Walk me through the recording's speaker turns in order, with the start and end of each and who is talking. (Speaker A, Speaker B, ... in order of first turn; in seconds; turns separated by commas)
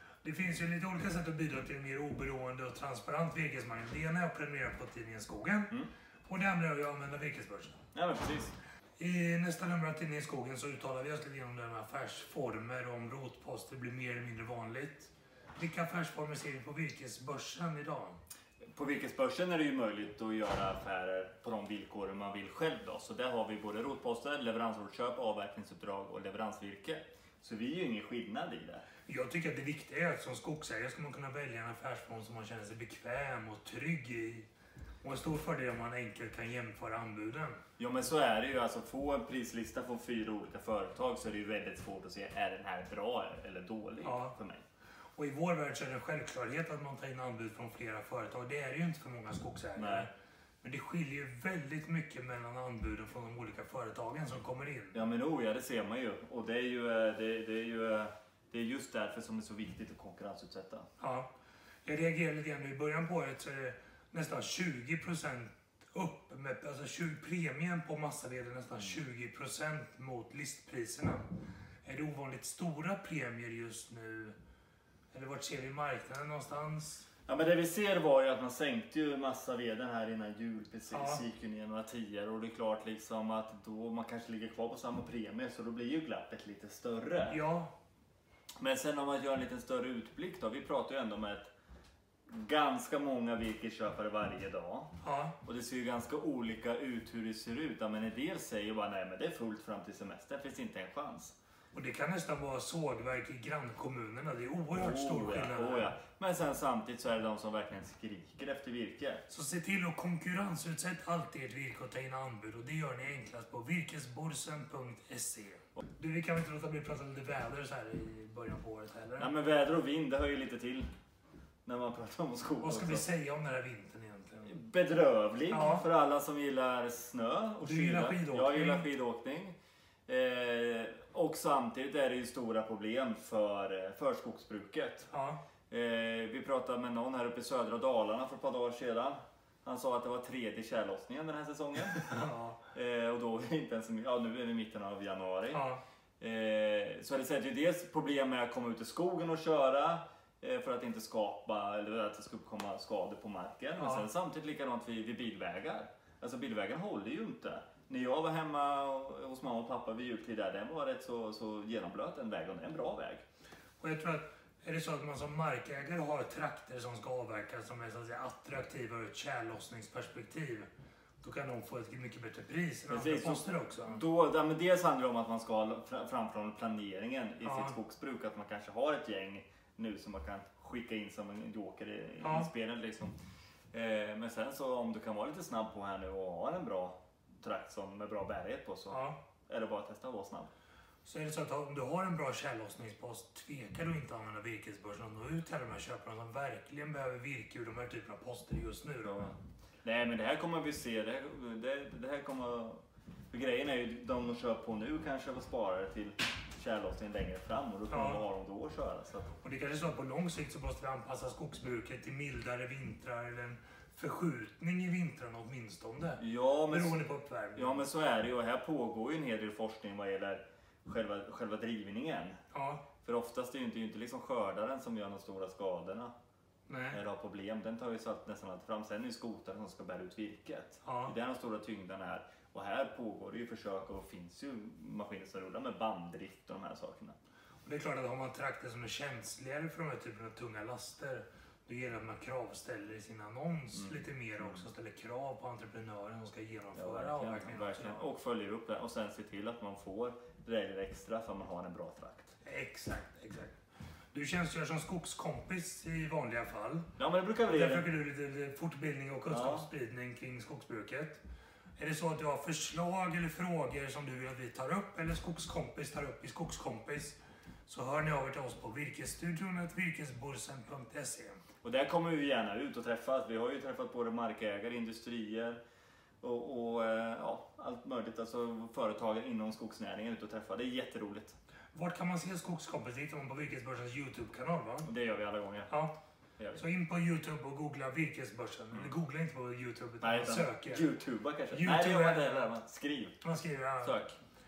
Speaker A: 0.2-5.7, Speaker A: 6.3-7.8, Speaker B: 7.9-8.5, Speaker A: 9.0-18.2, Speaker B: 18.7-28.8, Speaker A: 29.1-34.5, Speaker A: 35.0-37.6, Speaker B: 37.8-44.6, Speaker A: 44.0-44.3, Speaker A: 45.2-50.1, Speaker B: 49.8-50.1, Speaker A: 50.6-55.0, Speaker B: 54.9-60.9, Speaker A: 61.0-61.3, Speaker A: 61.8-71.3, Speaker A: 71.8-74.3, Speaker A: 75.1-77.0, Speaker B: 77.3-87.4, Speaker A: 80.9-81.2, Speaker A: 87.3-87.7, Speaker B: 88.6-91.5, Speaker B: 92.3-94.9, Speaker A: 95.0-95.3, Speaker B: 95.4-101.3, Speaker A: 101.7-105.9, Speaker B: 104.7-109.2, Speaker A: 109.3-119.3, Speaker B: 119.2-120.9, Speaker B: 121.6-123.0, Speaker A: 122.6-124.5, Speaker B: 124.5-129.6, Speaker A: 125.5-125.8, Speaker A: 127.6-128.9, Speaker B: 130.1-135.1, Speaker A: 135.1-135.4, Speaker B: 135.7-142.1, Speaker A: 141.9-142.6, Speaker B: 142.7-145.6, Speaker A: 145.5-145.8, Speaker B: 146.2-163.2, Speaker A: 153.8-154.1, Speaker A: 163.8-170.7, Speaker A: 171.2-174.0, Speaker B: 172.9-183.2, Speaker A: 177.4-177.8, Speaker A: 182.2-182.5, Speaker B: 183.7-190.5, Speaker A: 188.9-189.2, Speaker A: 191.0-199.3, Speaker B: 199.1-199.3, Speaker B: 199.8-202.8, Speaker B: 203.3-209.3, Speaker A: 207.9-208.2, Speaker A: 209.4-217.8, Speaker B: 216.2-217.0, Speaker B: 217.6-222.4, Speaker A: 222.5-222.8, Speaker B: 223.0-226.1, Speaker A: 226.7-227.0, Speaker B: 226.9-237.2, Speaker A: 230.8-231.1, Speaker A: 237.6-248.0, Speaker B: 243.7-244.6, Speaker B: 246.7-252.3, Speaker A: 252.4-253.6, Speaker A: 254.1-256.9, Speaker B: 257.0-257.9, Speaker A: 257.4-261.2, Speaker B: 259.3-259.7, Speaker A: 261.8-271.4, Speaker B: 271.6-275.6, Speaker B: 276.2-281.4, Speaker A: 281.7-284.9, Speaker B: 284.9-285.7, Speaker A: 286.5-290.9, Speaker B: 290.0-293.2, Speaker A: 291.5-292.5, Speaker A: 293.2-294.0, Speaker B: 293.8-294.2